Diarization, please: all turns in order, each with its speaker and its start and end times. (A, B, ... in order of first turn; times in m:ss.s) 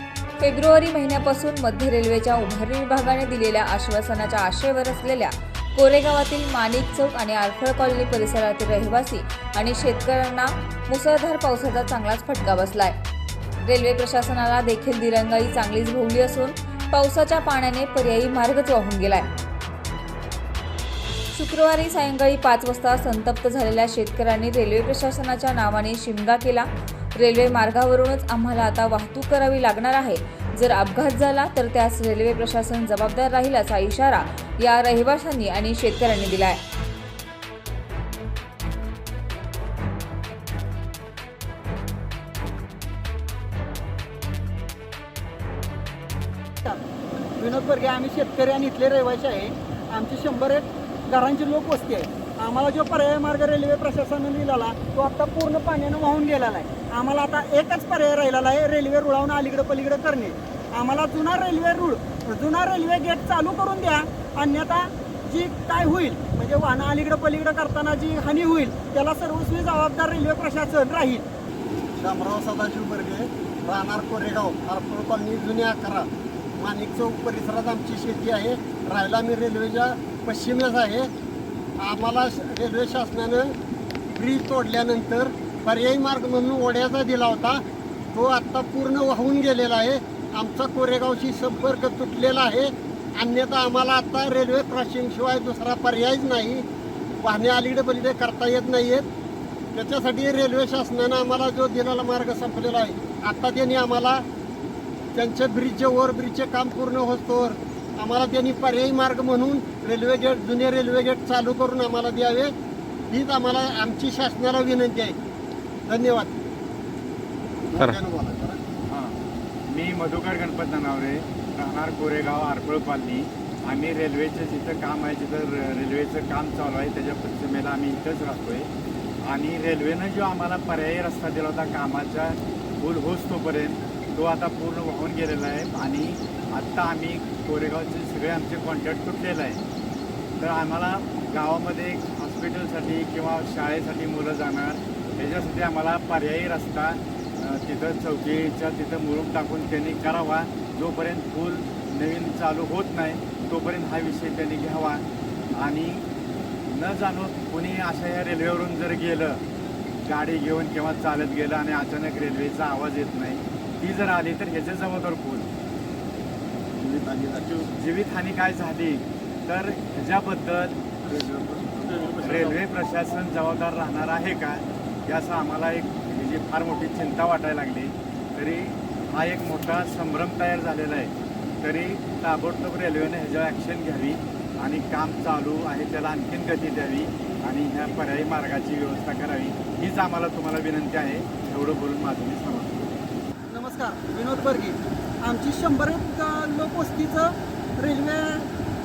0:00.4-0:13.0 A
0:13.6-0:19.3 A
0:21.3-0:36.6 A
0:47.4-1:11.2 B
1:12.0-1:21.1 C
1:21.8-1:23.6 C
1:24.2-1:36.7 C
1:37.2-1:39.1 C
1:39.7-1:44.2 C
1:45.1-1:52.5 C
1:53.1-1:55.2 C
1:55.9-1:56.4 C
1:57.7-1:58.6 C
1:58.9-1:59.2 D
1:59.7-2:08.7 D
2:09.2-2:19.6 D
2:20.4-2:35.0 D
2:35.6-2:36.0 D
2:36.7-2:39.4 D
2:40.0-2:45.5 D
2:46.8-2:47.6 C
2:47.6-2:50.9 D
2:51.1-2:52.5 C
2:52.2-3:12.9 D
3:13.5-3:18.5 B